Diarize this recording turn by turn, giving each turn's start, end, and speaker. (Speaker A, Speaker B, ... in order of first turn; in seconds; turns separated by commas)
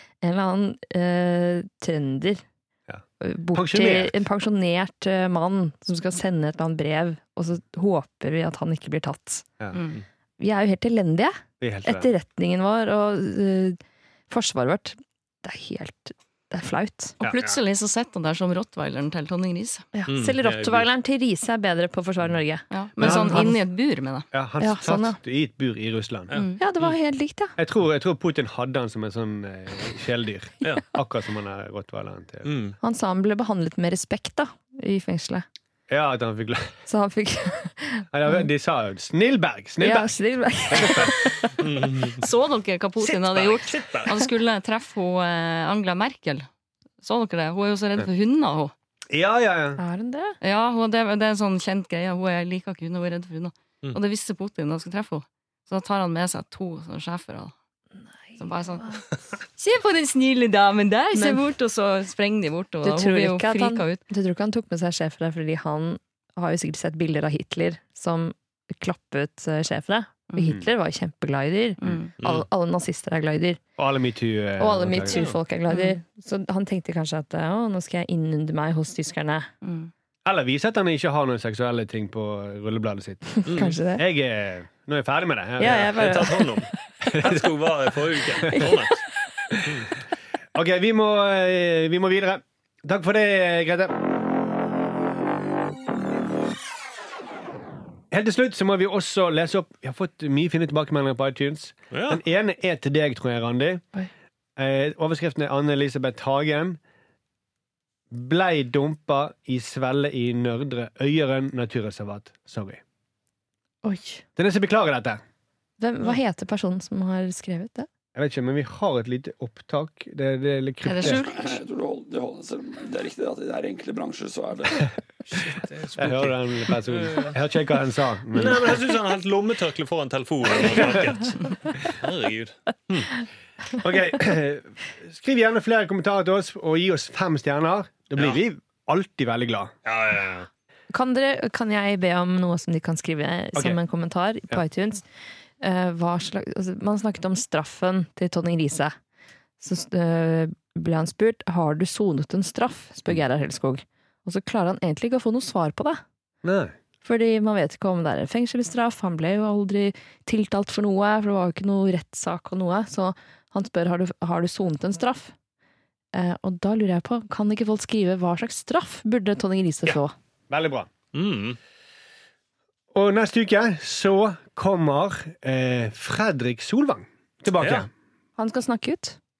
Speaker A: 0.2-2.4, Speaker A: 3.2-9.5, Speaker B: 3.5-4.2, Speaker C: 9.7-10.0, Speaker A: 10.4-13.8, Speaker B: 11.6-12.1, Speaker A: 14.3-17.2, Speaker C: 17.2-19.9, Speaker A: 19.9-23.6, Speaker D: 20.1-20.9, Speaker C: 22.7-24.3, Speaker B: 23.0-23.5, Speaker B: 24.3-26.3, Speaker A: 24.6-25.2, Speaker D: 26.3-26.9, Speaker C: 26.3-26.6, Speaker A: 26.6-27.5, Speaker B: 27.6-32.5, Speaker D: 32.4-32.8, Speaker A: 32.8-35.4, Speaker B: 35.9-36.7, Speaker A: 36.9-38.4, Speaker B: 38.1-40.1, Speaker A: 39.8-41.5, Speaker B: 40.7-41.1, Speaker D: 41.6-42.3, Speaker C: 42.2-46.5, Speaker D: 43.0-44.2, Speaker C: 47.0-48.7, Speaker B: 49.1-49.8, Speaker A: 49.8-50.4, Speaker C: 50.4-57.5, Speaker A: 58.4-58.9, Speaker C: 58.4-59.0, Speaker C: 59.6-64.0, Speaker A: 61.1-61.4, Speaker A: 62.8-73.6, Speaker C: 71.8-72.1, Speaker D: 71.9-72.5, Speaker B: 73.8-75.2, Speaker A: 74.6-79.5, Speaker D: 75.1-75.4, Speaker C: 75.7-76.0, Speaker C: 79.6-79.9, Speaker B: 80.2-85.9, Speaker A: 83.4-84.0, Speaker D: 83.5-83.8, Speaker A: 85.6-86.5, Speaker D: 85.6-89.0, Speaker B: 87.0-87.6, Speaker B: 89.5-89.8, Speaker D: 89.6-89.9, Speaker B: 90.5-94.1, Speaker B: 98.1-103.8, Speaker D: 101.9-102.2, Speaker B: 104.6-106.8, Speaker B: 108.1-112.8, Speaker A: 113.8-114.2, Speaker B: 114.3-115.2, Speaker A: 115.8-117.9, Speaker B: 118.1-121.2, Speaker C: 120.8-121.6, Speaker E: 121.0-124.8, Speaker D: 125.3-127.3, Speaker B: 126.0-128.8, Speaker D: 128.3-133.2, Speaker B: 130.6-131.2, Speaker B: 133.8-139.7, Speaker D: 139.8-140.5, Speaker A: 140.9-145.0, Speaker A: 145.6-148.9, Speaker A: 149.6-156.0, Speaker B: 156.4-156.7, Speaker A: 157.0-165.3, Speaker A: 166.1-170.1, Speaker B: 170.5-170.9, Speaker D: 171.1-171.6, Speaker B: 172.9-177.9, Speaker D: 177.6-177.9, Speaker A: 178.4-179.2